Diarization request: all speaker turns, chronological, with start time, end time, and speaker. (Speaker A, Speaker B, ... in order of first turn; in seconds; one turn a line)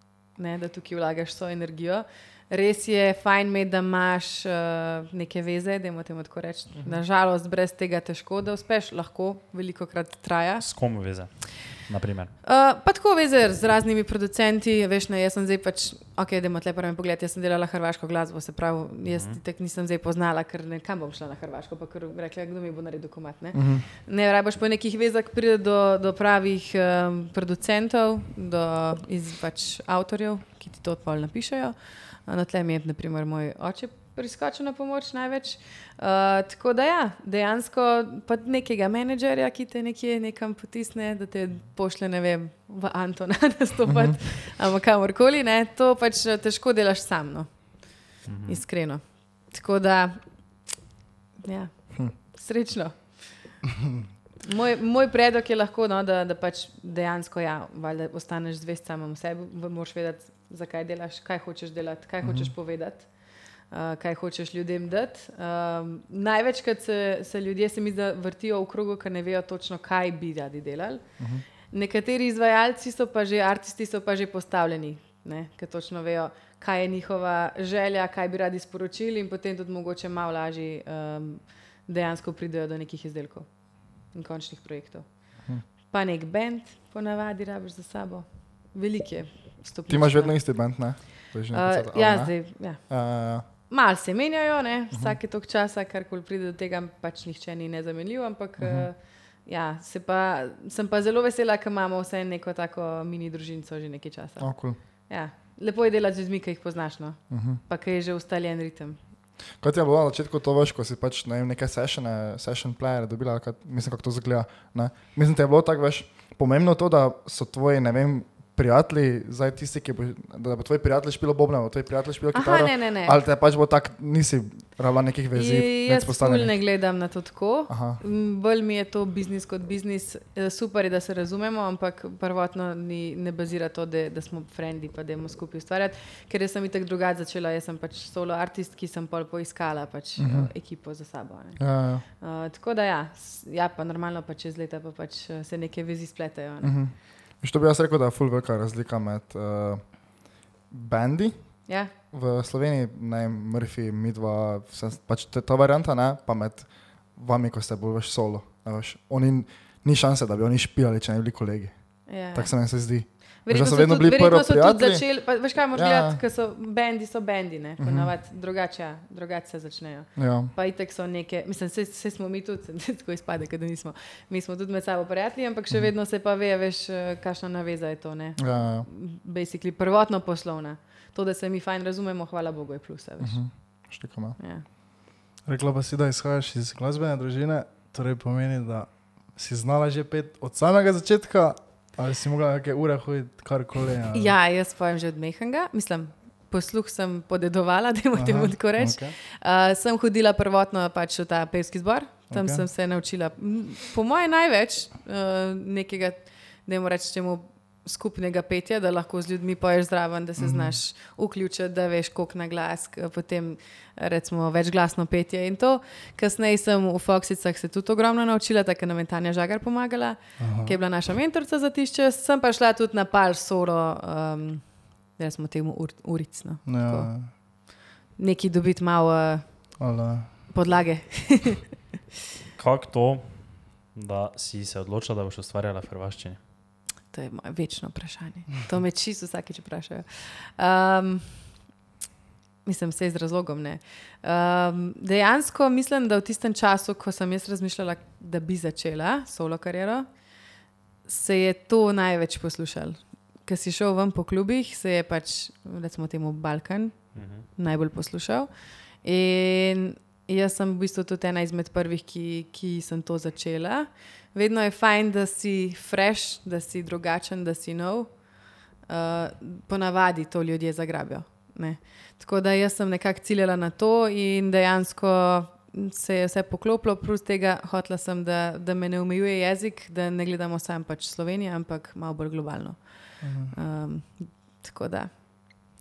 Speaker A: 0.3-10.7
Speaker B: 10.6-12.3
Speaker A: 12.4-47.5
Speaker B: 19.1-19.4
Speaker C: 23.5-23.9
Speaker C: 43.9-44.2
Speaker B: 48.3-48.6
Speaker A: 48.5-50.2
Speaker A: 51.4-53.4
Speaker A: 54.5-63.1
Speaker C: 62.2-62.5
Speaker A: 63.7-71.0
Speaker C: 71.2-71.4
Speaker A: 71.7-83.5
Speaker A: 84.1-85.1
Speaker A: 85.9-90.4
Speaker C: 89.9-93.4
Speaker A: 91.5-92.8
Speaker A: 93.7-104.5
Speaker C: 94.9-95.2
Speaker C: 98.6-98.9
Speaker C: 104.4-104.8
Speaker A: 105.1-109.0
Speaker C: 107.3-107.6
Speaker C: 109.6-126.5
Speaker A: 122.3-123.2
Speaker A: 125.3-141.6
Speaker C: 127.7-128.0
Speaker C: 140.2-140.5
Speaker C: 141.6-142.0
Speaker A: 142.2-146.8
Speaker C: 146.6-151.4
Speaker C: 152.1-161.7
Speaker A: 162.1-162.5
Speaker C: 162.3-166.2
Speaker A: 163.5-183.4
Speaker C: 167.8-168.1
Speaker C: 170.2-170.5
Speaker C: 178.4-178.9
Speaker C: 183.2-184.4
Speaker A: 184.4-184.6
Speaker D: 185.5-194.3
Speaker A: 194.1-227.1
Speaker D: 198.1-199.2
Speaker D: 202.3-202.6
Speaker D: 210.4-210.8
Speaker D: 220.4-220.8
Speaker D: 226.7-227.3
Speaker A: 228.2-229.4
Speaker D: 229.8-230.3
Speaker A: 230.5-231.6
Speaker B: 232.6-233.3
Speaker B: 233.9-236.4
Speaker A: 237.1-241.4
Speaker A: 242.7-250.1
Speaker A: 251.1-258.5
Speaker B: 257.1-257.4
Speaker A: 259.0-268.2
Speaker A: 268.9-285.1
Speaker D: 283.2-283.5